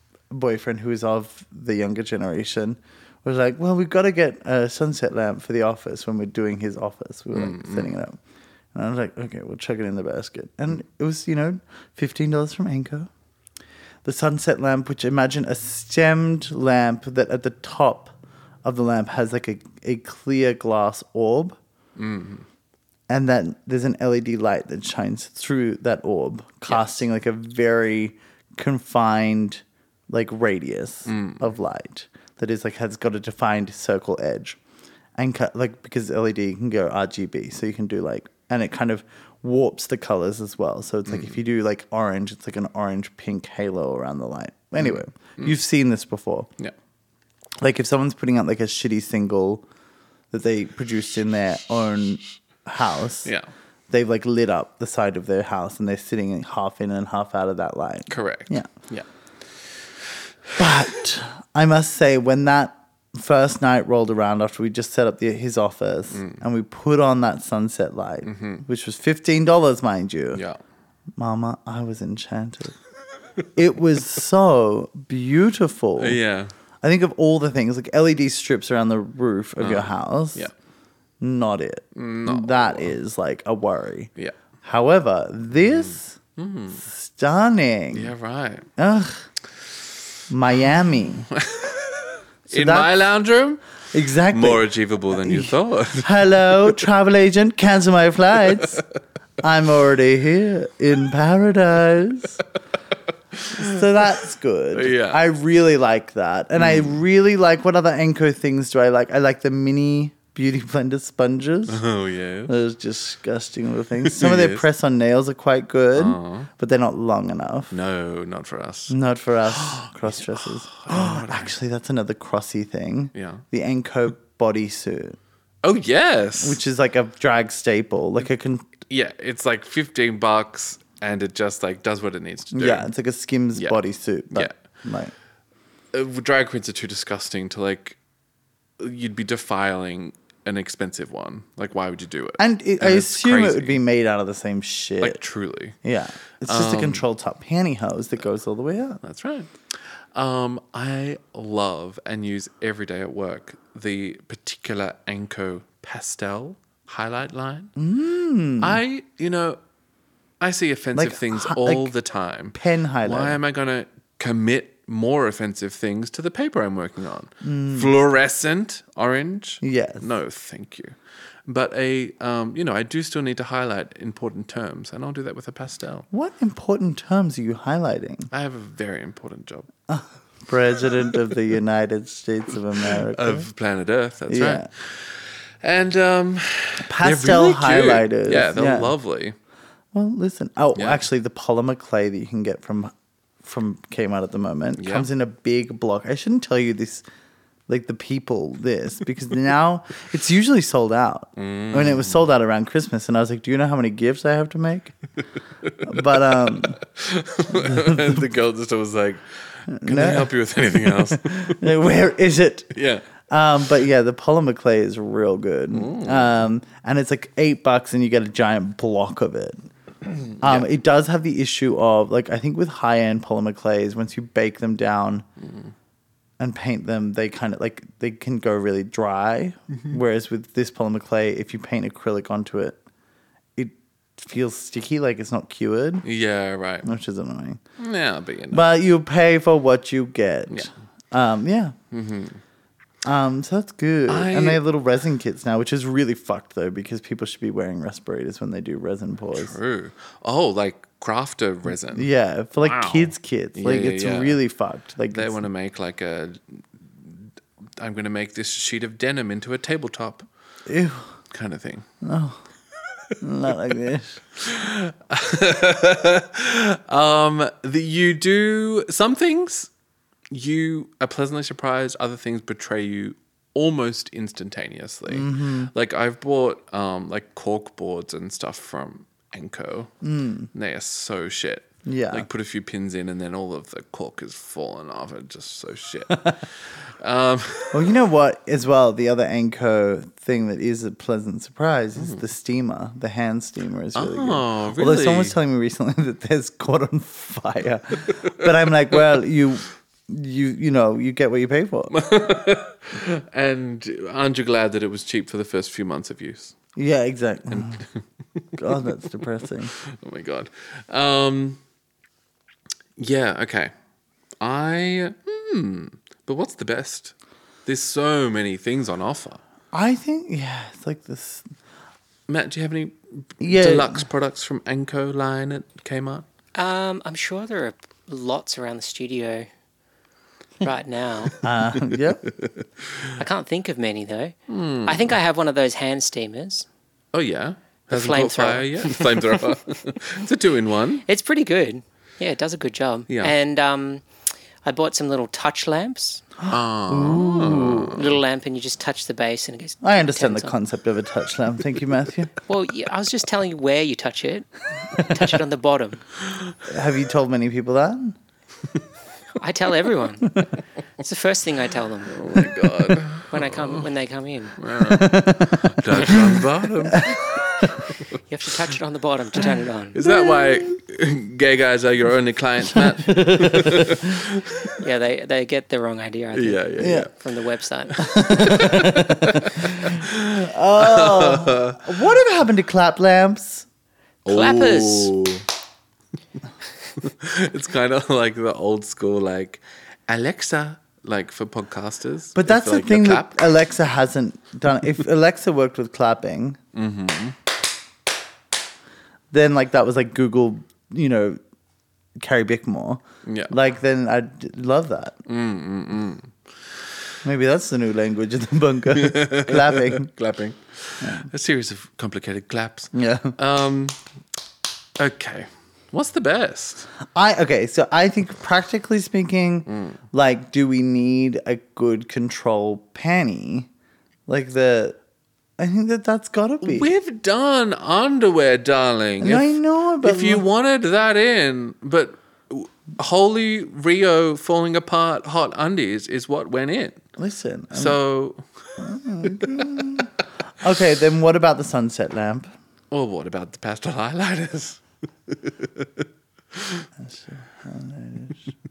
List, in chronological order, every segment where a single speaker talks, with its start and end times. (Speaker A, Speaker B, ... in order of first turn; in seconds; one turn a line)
Speaker A: 0.3-8.2
Speaker B: 7.3-7.9
Speaker A: 8.7-13.1
Speaker A: 14.0-21.6
Speaker B: 22.0-22.4
Speaker A: 23.1-34.6
Speaker B: 31.1-31.4
Speaker A: 35.2-46.5
Speaker B: 41.1-41.3
Speaker A: 47.6-49.6
Speaker A: 50.3-53.3
Speaker A: 53.9-58.7
Speaker B: 58.1-59.0
Speaker A: 60.6-70.4
Speaker B: 66.1-66.4
Speaker B: 68.2-68.6
Speaker B: 70.3-70.6
Speaker A: 71.2-72.8
Speaker A: 73.5-76.2
Speaker B: 76.0-76.5
Speaker A: 76.8-80.5
Speaker B: 79.6-80.5
Speaker A: 81.2-84.1
Speaker B: 81.9-82.9
Speaker A: 84.6-86.2
Speaker B: 86.3-86.8
Speaker A: 86.8-88.1
Speaker B: 87.9-88.7
Speaker A: 88.8-89.2
Speaker A: 90.3-91.3
Speaker B: 91.3-93.6
Speaker A: 92.5-92.9
Speaker A: 93.9-98.8
Speaker B: 94.3-96.8
Speaker A: 99.4-102.4
Speaker B: 103.3-103.8
Speaker A: 103.5-111.8
Speaker B: 104.7-105.2
Speaker B: 106.6-107.0
Speaker B: 111.7-112.6
Speaker A: 112.5-117.7
Speaker B: 114.0-114.6
Speaker B: 115.9-116.5
Speaker B: 117.7-119.0
Speaker A: 118.9-125.2
Speaker B: 119.5-121.5
Speaker B: 123.1-123.4
Speaker B: 125.6-126.6
Speaker A: 126.4-128.7
Speaker B: 128.9-132.8
Speaker A: 132.5-135.1
Speaker B: 134.3-134.6
Speaker B: 135.9-138.0
Speaker B: 138.8-143.8
Speaker A: 142.4-145.2
Speaker B: 145.0-145.8
Speaker A: 145.8-149.0
Speaker B: 146.4-147.0
Speaker B: 149.0-149.5
Speaker B: 150.1-157.7
Speaker A: 157.8-158.8
Speaker B: 158.6-159.6
Speaker B: 160.4-170.9
Speaker A: 160.9-161.9
Speaker A: 162.5-163.4
Speaker A: 167.4-167.9
Speaker A: 169.6-170.1
Speaker B: 171.5-176.1
Speaker A: 176.1-178.3
Speaker B: 178.3-179.7
Speaker A: 179.9-183.5
Speaker B: 182.8-189.3
Speaker A: 184.3-184.7
Speaker A: 186.8-188.9
Speaker A: 189.9-197.1
Speaker B: 190.7-191.0
Speaker B: 194.8-195.1
Speaker A: 197.7-204.9
Speaker B: 201.3-202.3
Speaker B: 205.6-211.7
Speaker A: 205.8-206.8
Speaker A: 207.5-208.3
Speaker A: 209.7-219.6
Speaker B: 212.7-213.1
Speaker B: 215.7-216.4
Speaker B: 220.1-220.7
Speaker A: 220.4-225.2
Speaker B: 225.4-225.7
Speaker A: 226.4-232.8
Speaker A: 233.6-236.0
Speaker B: 236.0-236.9
Speaker A: 236.8-237.6
Speaker B: 237.8-238.7
Speaker A: 238.5-241.7
Speaker B: 241.9-242.4
Speaker A: 243.0-249.5
Speaker B: 244.1-244.6
Speaker B: 249.3-252.1
Speaker A: 251.9-255.4
Speaker B: 252.6-254.4
Speaker B: 255.1-260.3
Speaker A: 260.7-261.1
Speaker B: 261.3-261.9
Speaker A: 262.0-262.4
Speaker A: 263.2-264.2
Speaker B: 264.4-269.7
Speaker B: 270.3-279.9
Speaker A: 275.1-275.7
Speaker A: 280.0-280.5
Speaker B: 280.5-287.9
Speaker A: 281.8-282.3
Speaker A: 287.7-301.9
Speaker B: 293.9-295.4
Speaker B: 298.1-298.3
Speaker B: 301.9-306.5
Speaker A: 306.8-307.9
Speaker A: 308.6-309.7
Speaker B: 309.7-311.6
Speaker B: 313.0-313.7
Speaker B: 314.4-317.1
Speaker B: 317.6-319.4
Speaker A: 319.7-321.5
Speaker B: 322.3-326.2
Speaker A: 323.4-324.1
Speaker C: 326.5-329.5
Speaker C: 330.6-331.4
Speaker A: 331.4-332.3
Speaker B: 332.2-333.1
Speaker C: 333.1-336.6
Speaker B: 334.5-335.1
Speaker B: 337.1-341.0
Speaker C: 337.9-339.4
Speaker C: 341.1-344.1
Speaker B: 343.1-343.3
Speaker C: 344.6-346.2
Speaker A: 346.5-347.9
Speaker B: 346.5-348.1
Speaker C: 347.8-350.6
Speaker A: 349.8-352.4
Speaker C: 352.4-356.1
Speaker A: 356.6-358.2
Speaker C: 359.4-360.4
Speaker C: 361.0-362.2
Speaker B: 362.1-363.9
Speaker C: 363.3-364.6
Speaker B: 364.6-368.1
Speaker A: 364.8-367.2
Speaker C: 368.3-370.0
Speaker B: 369.9-374.7
Speaker A: 370.1-370.7
Speaker A: 372.7-374.2
Speaker C: 374.8-378.7
Speaker B: 376.3-377.1
Speaker A: 376.8-377.1
Speaker B: 377.9-381.9
Speaker A: 378.0-383.6
Speaker B: 384.2-385.4
Speaker C: 384.3-385.1
Speaker B: 387.0-393.4
Speaker A: 392.3-396.6
Speaker B: 396.7-397.4
Speaker A: 399.3-401.4
Speaker A: 402.2-405.2
Speaker B: 403.2-403.5
Speaker B: 405.2-406.4
Speaker A: 407.2-410.1
Speaker B: 408.9-414.0
Speaker A: 411.0-411.3
Speaker A: 412.9-413.4
Speaker B: 415.0-416.9
Speaker A: 417.1-423.7
Speaker B: 419.7-420.0
Speaker A: 424.3-425.0
Speaker A: 425.6-426.9
Speaker B: 426.6-437.1
Speaker A: 429.2-430.4
Speaker A: 437.2-438.0
Speaker B: 437.7-440.0
Speaker A: 438.8-440.1
Speaker A: 440.6-442.5
Speaker B: 442.9-446.9
Speaker A: 447.0-448.5